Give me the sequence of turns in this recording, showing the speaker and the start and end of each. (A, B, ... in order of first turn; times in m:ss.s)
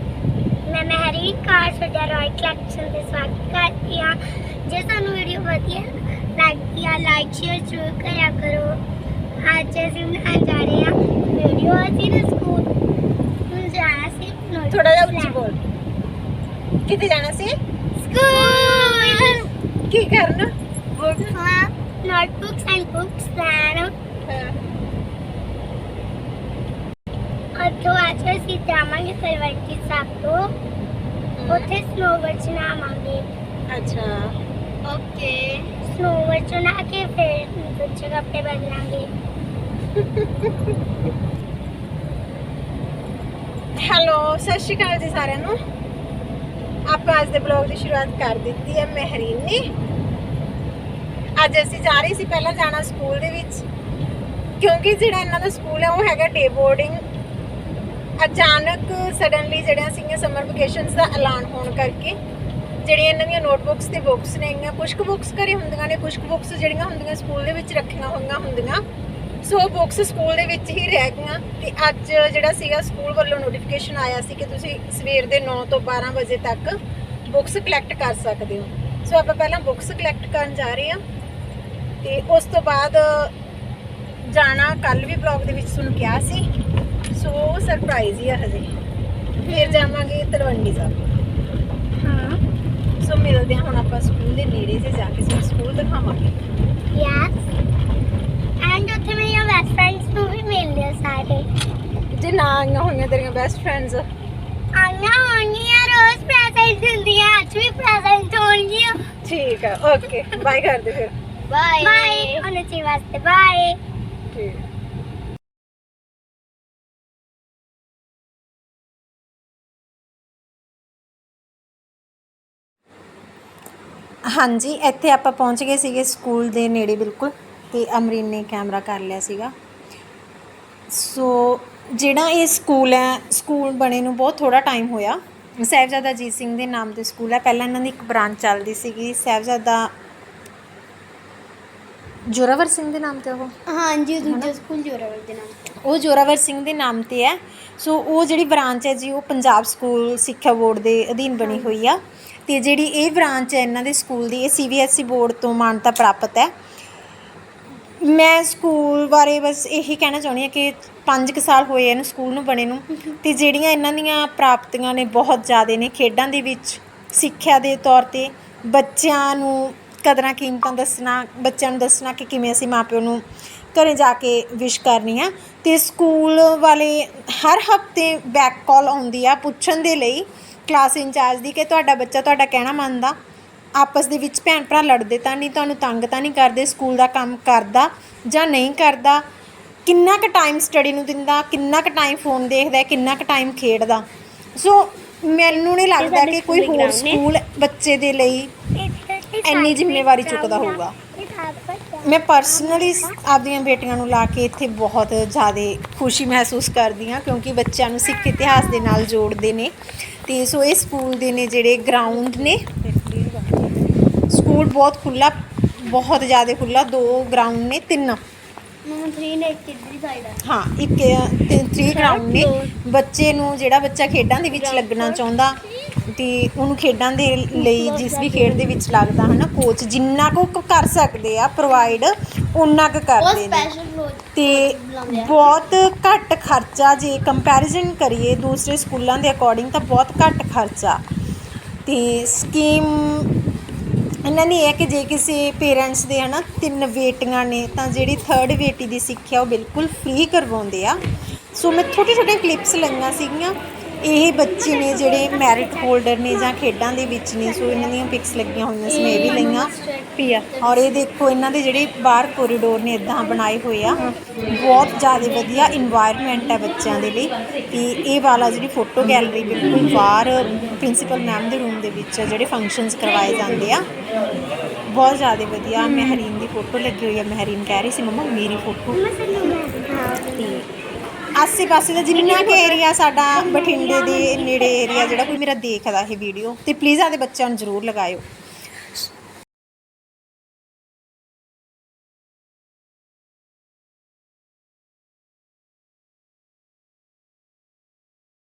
0:00.7-0:08.8 A
0:09.4-0:12.7 A
0:13.5-0:15.4 A
0:14.7-0:15.6 B
0:16.8-0:17.6 B
0:18.0-0:19.4 C
0:18.2-0:19.4 A
0:19.9-0:20.5 B
0:21.0-0:21.7 C
0:22.0-0:23.9 A
0:24.3-0:24.6 B
0:27.6-0:30.5 A
0:31.4-0:31.7 B
0:31.5-0:33.2 A
0:33.7-0:34.3 B
0:34.9-0:35.7 C
0:35.8-0:39.1 A
0:40.0-0:40.7 B
0:43.8-0:45.6 B
0:46.9-0:49.6 B
0:51.4-0:53.6 B
0:54.6-0:57.0 B
0:58.2-1:02.2 B
1:02.8-1:08.8 B
1:09.4-1:21.0 B
1:22.0-1:23.3 B
1:24.2-1:26.4 B
1:27.1-1:28.7 B
1:29.5-1:31.0 B
1:29.5-1:29.9 A
1:32.0-1:32.4 A
1:33.0-1:36.4 B
1:36.9-1:37.5 A
1:38.6-1:41.5 A
1:42.1-1:44.0 B
1:44.8-1:49.0 A
1:49.2-1:51.2 B
1:51.4-1:52.5 C
1:51.8-1:53.8 A
1:54.3-1:54.6 B
2:04.3-2:09.5 B
2:10.9-2:19.9 B
2:22.3-2:23.5 B
2:23.7-2:25.6 C
2:24.2-2:24.5 B
2:25.8-2:36.5 B
2:38.0-2:53.2 B
2:53.7-3:03.2 B
3:03.8-3:09.2 B
3:09.9-3:14.0 B
3:14.6-3:18.5 B
3:16.0-3:17.2 C
3:18.8-3:23.2 A
3:19.5-3:21.0 B
3:22.0-3:29.7 B
3:28.3-3:28.9 A
3:30.3-3:33.5 B
3:34.3-3:38.2 B
3:38.8-3:40.4 C
3:40.4-3:53.7 B
3:41.9-3:42.7 C
3:44.5-3:45.2 C
3:47.5-3:48.7 C
3:53.2-3:55.5 C
3:54.3-4:01.0 B
4:01.9-4:03.3 B
4:04.2-4:11.0 B
4:11.6-4:33.8 B
4:14.4-4:16.5 A
4:18.9-4:20.1 C
4:34.9-4:39.0 B
4:38.9-4:40.7 A
4:41.4-4:48.2 B
4:42.1-4:45.2 A